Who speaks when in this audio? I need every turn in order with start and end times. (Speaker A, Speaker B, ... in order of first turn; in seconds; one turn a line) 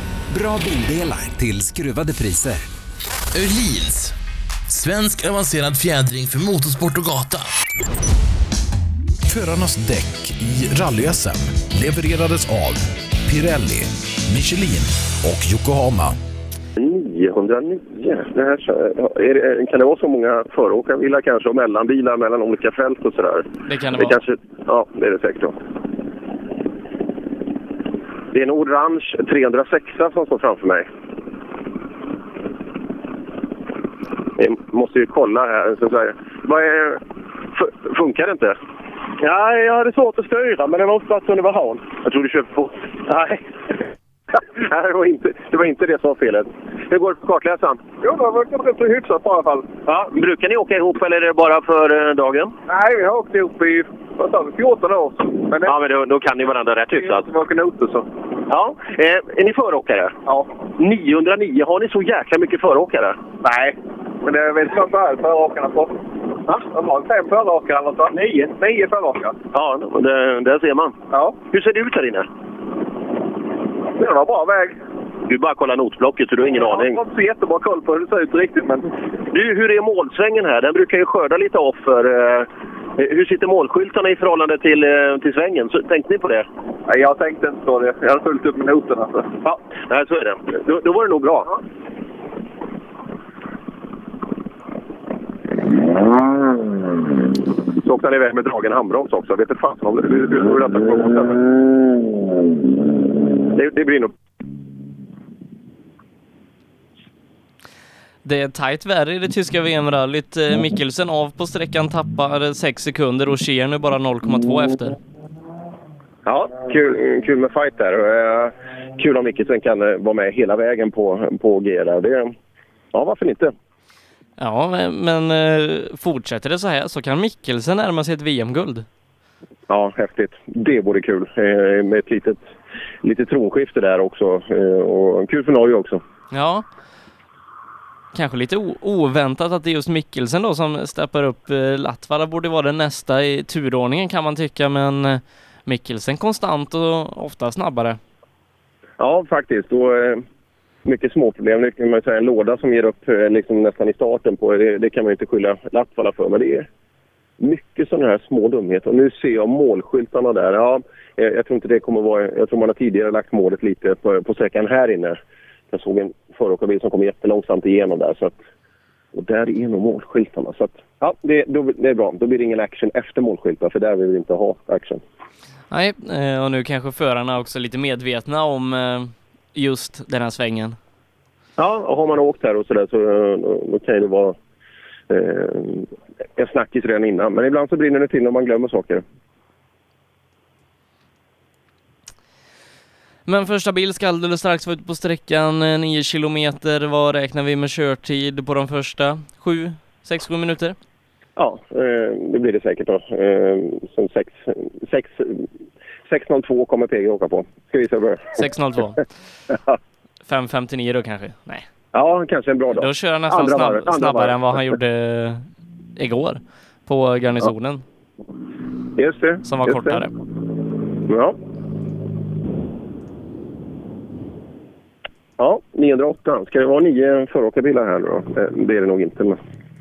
Speaker A: 0.3-2.7
Speaker B: 3.3-4.1
Speaker B: 4.7-7.5
Speaker C: 9.3-16.1
Speaker D: 16.8-25.5
Speaker E: 23.7-24.2
Speaker D: 28.3-30.9
Speaker D: 34.4-37.0
Speaker D: 37.5-38.6
Speaker D: 39.2-43.1
Speaker D: 44.4-47.8
Speaker F: 48.0-49.7
Speaker D: 49.9-52.5
Speaker F: 52.7-55.7
Speaker D: 55.6-57.2
Speaker F: 57.0-58.0
Speaker D: 58.5-60.1
Speaker D: 60.8-63.2
Speaker F: 63.4-63.7
Speaker F: 64.2-65.9
Speaker F: 66.6-69.3
Speaker D: 69.5-71.0
Speaker D: 71.5-72.2
Speaker F: 74.0-74.7
Speaker D: 75.3-77.0
Speaker F: 76.6-78.8
Speaker D: 79.3-86.4
Speaker F: 86.9-89.3
Speaker D: 89.4-91.5
Speaker D: 97.8-101.4
Speaker D: 103.5-104.1
Speaker E: 108.2-115.0
Speaker D: 116.2-122.3
Speaker D: 122.9-123.5
Speaker E: 124.4-128.8
Speaker D: 129.7-132.5
Speaker D: 133.0-136.0
Speaker E: 136.3-136.7
Speaker E: 138.1-148.0
Speaker D: 149.0-150.2
Speaker D: 150.8-156.7
Speaker D: 157.4-165.2
Speaker D: 165.7-168.3
Speaker D: 169.1-175.0
Speaker E: 175.7-180.8
Speaker D: 181.6-184.3
Speaker D: 185.1-189.0
Speaker E: 193.2-200.8
Speaker D: 201.4-205.4
Speaker D: 206.1-208.4
Speaker E: 208.3-209.0
Speaker E: 210.2-211.7
Speaker D: 211.9-214.7
Speaker E: 212.7-217.8
Speaker D: 219.0-220.0
Speaker E: 219.4-220.1
Speaker D: 221.1-221.3
Speaker D: 225.4-229.4